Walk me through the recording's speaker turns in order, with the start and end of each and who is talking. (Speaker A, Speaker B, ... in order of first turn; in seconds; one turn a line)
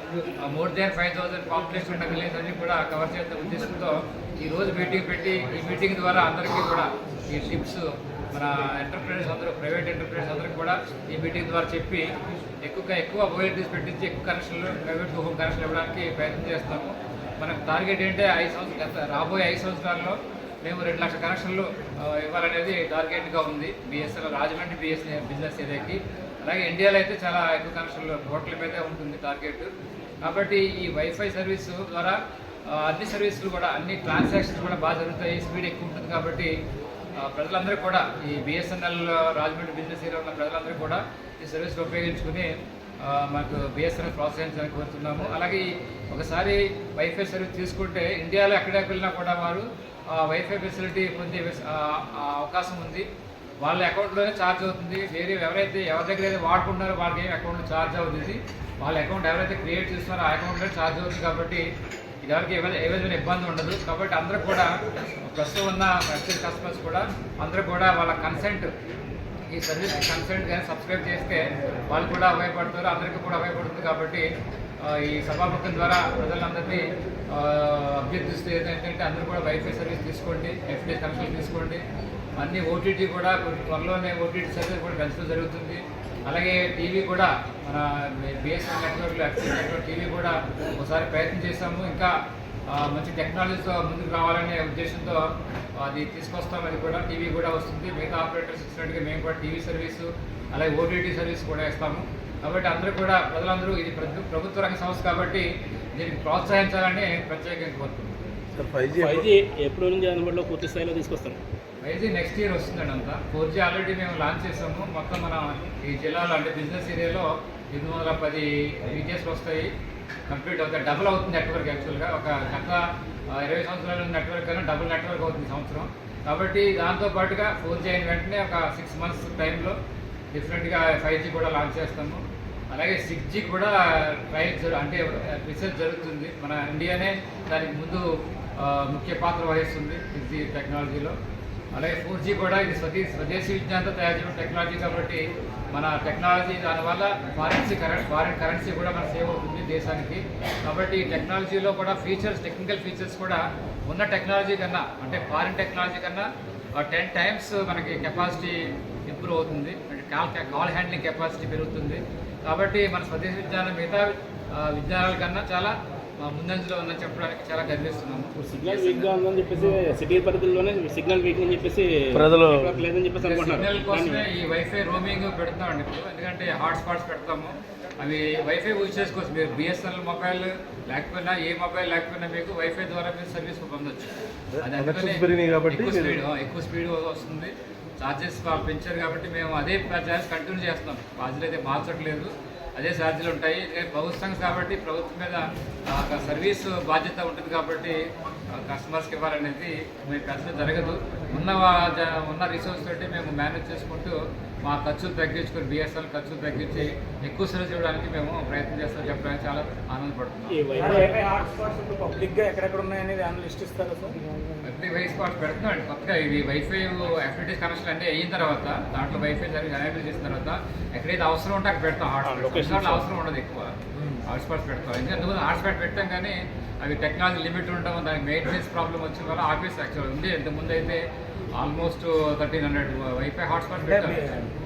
Speaker A: 0.4-12.1
Speaker A: 12.6-29.7
Speaker A: 30.2-36.5
Speaker A: 37.2-53.0
Speaker A: 53.6-61.6
Speaker A: 62.2-64.7
Speaker A: 65.2-68.7
Speaker A: 69.5-74.2
Speaker A: 74.8-81.8
Speaker A: 82.4-92.1
Speaker A: 92.7-95.2
Speaker A: 95.8-108.2
Speaker B: 108.5-109.3
Speaker C: 108.9-111.4
Speaker A: 111.8-119.7
Speaker A: 120.3-129.8
Speaker A: 130.3-138.0
Speaker A: 138.6-141.2
Speaker A: 141.7-169.1
Speaker C: 168.4-174.2
Speaker B: 172.1-172.7
Speaker A: 173.2-198.0
Speaker B: 184.6-186.2
Speaker A: 198.5-210.7
Speaker C: 210.5-211.1
Speaker D: 210.7-214.2
Speaker A: 214.7-223.8
Speaker C: 222.2-223.0
Speaker D: 223.9-224.2
Speaker A: 224.3-231.0
Speaker A: 231.6-234.3
Speaker D: 233.8-234.5